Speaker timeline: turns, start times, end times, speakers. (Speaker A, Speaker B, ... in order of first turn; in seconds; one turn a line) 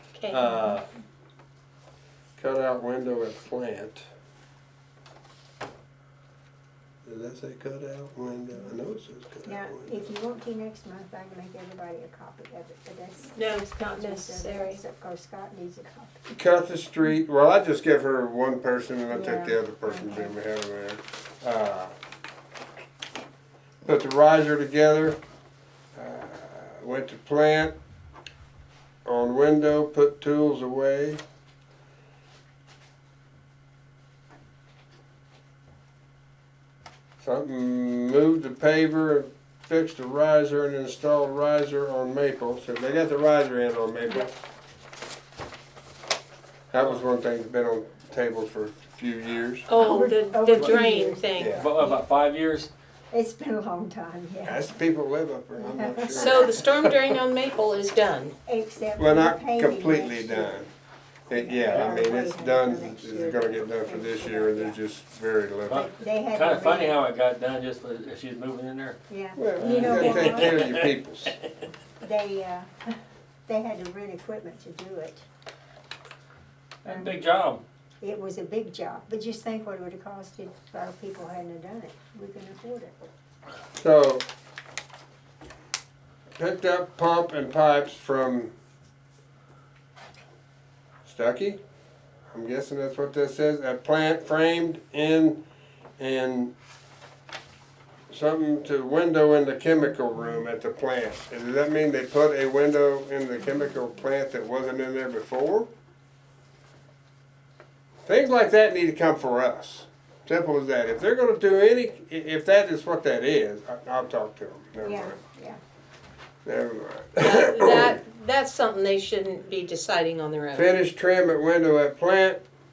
Speaker A: 0.1-0.5
Speaker B: 0.3-0.9
Speaker B: 2.4-4.1
Speaker B: 7.0-10.1
Speaker C: 9.4-16.4
Speaker A: 13.3-14.8
Speaker B: 16.3-21.9
Speaker C: 19.1-20.3
Speaker B: 23.8-25.2
Speaker B: 25.9-27.7
Speaker B: 29.0-31.2
Speaker B: 37.2-44.3
Speaker B: 46.7-49.7
Speaker A: 49.7-51.5
Speaker C: 49.8-52.0
Speaker D: 50.5-50.8
Speaker B: 51.4-51.7
Speaker D: 51.4-52.7
Speaker C: 53.1-54.8
Speaker B: 54.4-57.0
Speaker C: 55.5-56.6
Speaker A: 56.1-58.3
Speaker C: 58.5-60.6
Speaker B: 59.0-60.7
Speaker B: 61.3-65.9
Speaker C: 61.3-64.8
Speaker D: 65.6-69.0
Speaker C: 65.7-67.0
Speaker C: 69.1-70.6
Speaker B: 69.3-71.3
Speaker D: 69.6-71.4
Speaker C: 72.0-72.9
Speaker C: 73.5-75.2
Speaker D: 76.8-77.6
Speaker C: 76.8-77.2
Speaker C: 78.0-83.0
Speaker B: 83.8-84.2
Speaker B: 86.3-88.5
Speaker B: 91.0-91.6
Speaker B: 92.3-95.4
Speaker B: 96.0-96.5
Speaker B: 98.1-105.7
Speaker B: 108.0-115.2
Speaker C: 114.8-115.6
Speaker B: 116.4-118.0
Speaker A: 117.2-120.7
Speaker B: 120.5-122.4